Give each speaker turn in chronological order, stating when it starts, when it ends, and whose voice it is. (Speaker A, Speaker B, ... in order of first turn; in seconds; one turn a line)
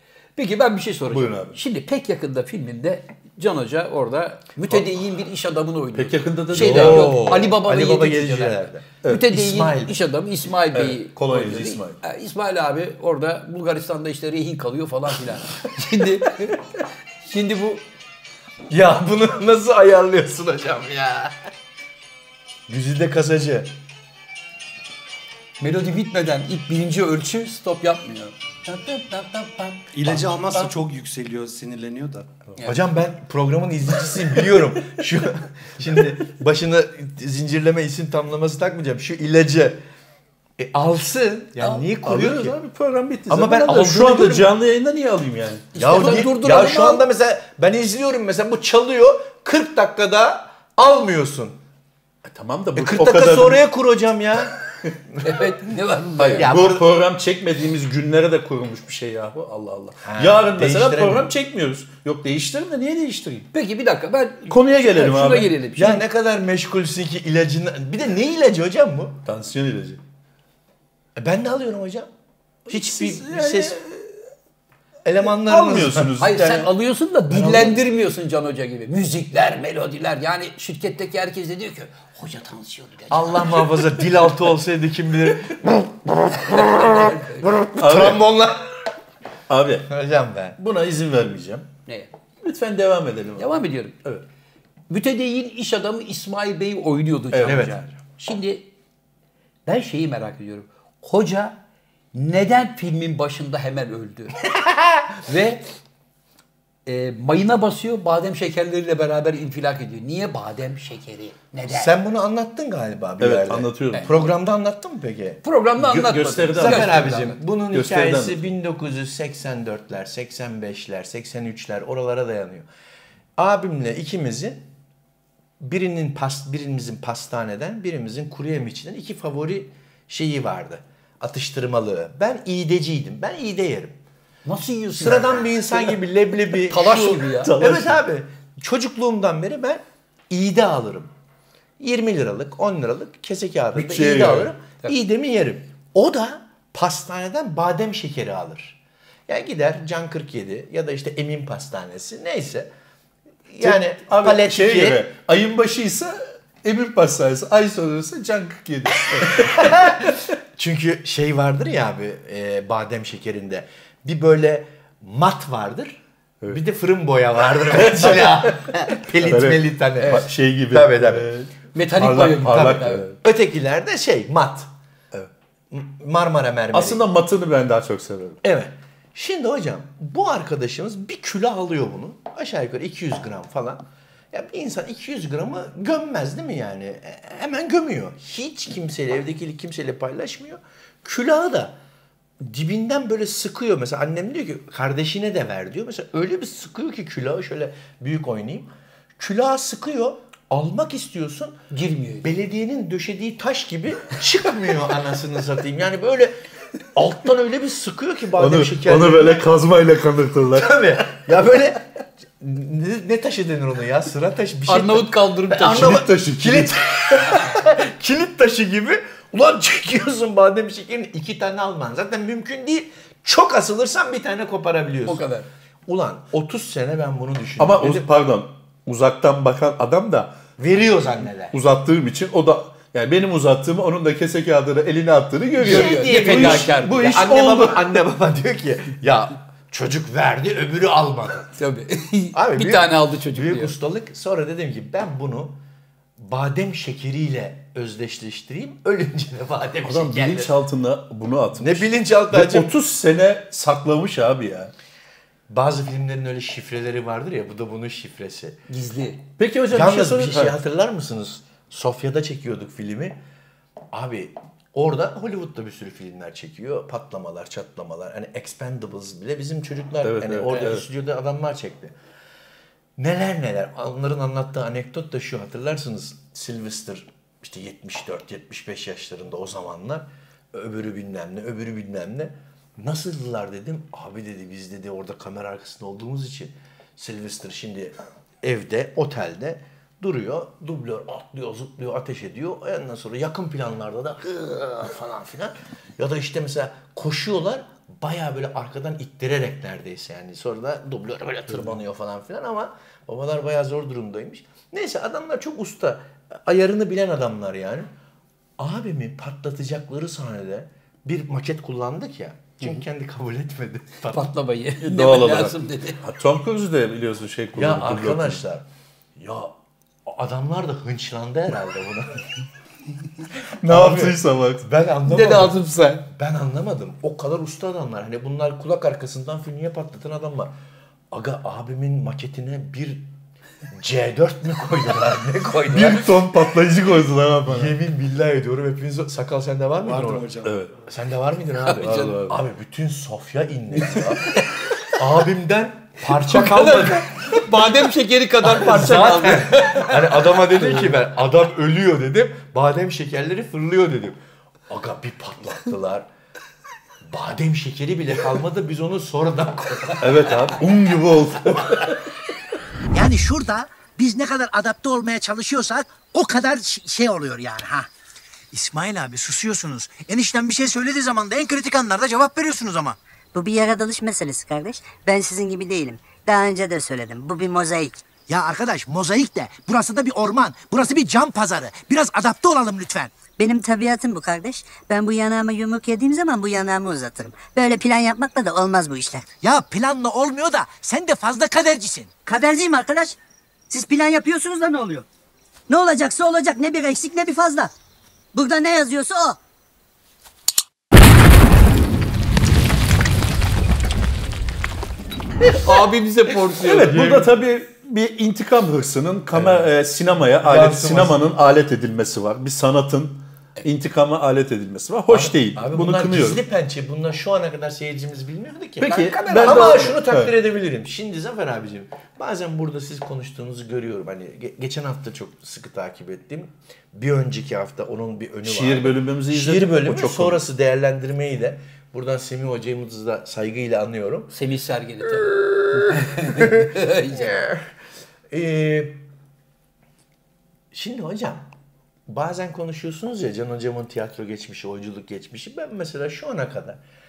Speaker A: 0.3-16.6
Speaker B: 1.1-1.6
Speaker B: 5.9-7.3
Speaker C: 6.5-10.0
Speaker B: 10.7-12.0
Speaker A: 17.2-17.8
Speaker C: 18.7-21.3
Speaker C: 22.7-23.7
Speaker A: 25.6-30.7
Speaker D: 29.9-32.3
Speaker A: 32.5-32.8
Speaker C: 32.6-39.8
Speaker C: 40.6-42.6
Speaker B: 42.0-46.2
Speaker C: 43.3-44.5
Speaker A: 45.7-47.0
Speaker C: 45.8-51.6
Speaker B: 52.2-53.6
Speaker C: 52.8-54.5
Speaker A: 55.2-56.5
Speaker B: 56.2-63.5
Speaker C: 56.4-56.9
Speaker C: 60.0-61.3
Speaker A: 63.5-66.0
Speaker B: 64.5-65.5
Speaker C: 65.8-69.2
Speaker B: 69.2-70.0
Speaker C: 71.2-72.1
Speaker C: 72.7-73.8
Speaker B: 72.7-74.1
Speaker C: 75.0-76.1
Speaker B: 75.2-76.7
Speaker A: 76.2-83.8
Speaker C: 77.3-77.8
Speaker C: 83.1-88.6
Speaker A: 86.8-87.5
Speaker B: 87.8-88.2
Speaker B: 89.5-89.9
Speaker C: 89.9-90.6
Speaker B: 90.6-91.7
Speaker B: 92.4-94.2
Speaker A: 93.4-93.9
Speaker A: 94.9-98.7
Speaker B: 97.3-97.7
Speaker C: 97.4-97.9
Speaker A: 99.7-101.6
Speaker A: 102.1-104.4
Speaker A: 105.3-105.6
Speaker A: 106.8-111.9
Speaker C: 111.7-115.4
Speaker B: 113.2-114.2
Speaker A: 115.4-117.4
Speaker B: 115.8-117.1
Speaker C: 116.5-122.7
Speaker B: 117.7-118.4
Speaker C: 123.4-124.6
Speaker C: 125.6-134.0
Speaker A: 134.4-135.6
Speaker C: 134.9-141.1
Speaker A: 136.7-137.5
Speaker B: 137.4-138.0
Speaker C: 141.8-148.8
Speaker B: 143.7-144.5
Speaker C: 149.3-152.7
Speaker C: 153.5-155.0
Speaker B: 153.6-159.7
Speaker C: 159.2-166.0
Speaker C: 166.5-171.3
Speaker B: 167.7-173.2
Speaker A: 171.7-173.0
Speaker C: 172.2-174.7
Speaker C: 175.7-177.0
Speaker B: 176.7-178.4
Speaker C: 178.4-191.8
Speaker C: 192.4-201.6
Speaker A: 201.7-202.3
Speaker C: 202.2-206.3
Speaker C: 206.9-209.5
Speaker B: 208.4-211.0
Speaker C: 210.5-211.8
Speaker C: 212.4-225.2
Speaker A: 214.7-216.0
Speaker B: 215.6-216.8
Speaker A: 225.1-225.5
Speaker C: 225.9-228.1
Speaker B: 227.6-230.4
Speaker C: 230.6-231.6
Speaker B: 231.5-238.0
Speaker C: 235.6-241.5
Speaker A: 235.6-237.2
Speaker A: 241.6-243.7
Speaker C: 242.3-245.6
Speaker C: 246.2-250.6
Speaker B: 249.8-254.7
Speaker C: 251.6-252.7
Speaker C: 255.5-258.6
Speaker A: 258.7-259.2
Speaker B: 259.4-260.6
Speaker C: 259.7-263.2
Speaker C: 263.9-271.9
Speaker B: 270.0-270.8
Speaker C: 273.0-307.9
Speaker C: 308.6-314.3
Speaker A: 314.1-316.0
Speaker B: 314.8-318.4
Speaker C: 317.5-318.6
Speaker C: 319.2-319.5
Speaker C: 320.1-322.3
Speaker B: 323.6-324.6
Speaker C: 323.6-330.5
Speaker A: 325.1-326.1
Speaker C: 331.1-333.1
Speaker C: 333.7-336.1
Speaker B: 335.7-337.8
Speaker C: 337.4-340.4
Speaker D: 339.8-340.5
Speaker B: 340.4-340.7
Speaker C: 340.9-344.3
Speaker A: 341.6-342.1
Speaker B: 341.8-342.4
Speaker C: 344.9-347.4
Speaker A: 346.2-350.2
Speaker C: 348.4-354.2
Speaker C: 354.7-356.1
Speaker C: 357.1-360.5
Speaker B: 360.0-361.9
Speaker E: 362.9-367.9
Speaker E: 368.5-373.0
Speaker F: 373.3-377.9
Speaker E: 378.3-383.2
Speaker F: 383.4-389.4
Speaker E: 389.4-392.1
Speaker F: 392.2-393.2
Speaker F: 393.7-395.1
Speaker F: 395.7-397.7
Speaker F: 398.3-399.4
Speaker A: 405.5-407.2
Speaker B: 406.6-416.4
Speaker C: 409.3-409.6
Speaker C: 410.4-411.2
Speaker C: 415.1-434.3
Speaker B: 418.8-420.3
Speaker A: 419.2-419.9
Speaker B: 428.4-430.4
Speaker A: 434.3-437.4
Speaker C: 436.2-437.7
Speaker C: 438.3-439.0
Speaker C: 440.7-441.5
Speaker C: 442.1-446.8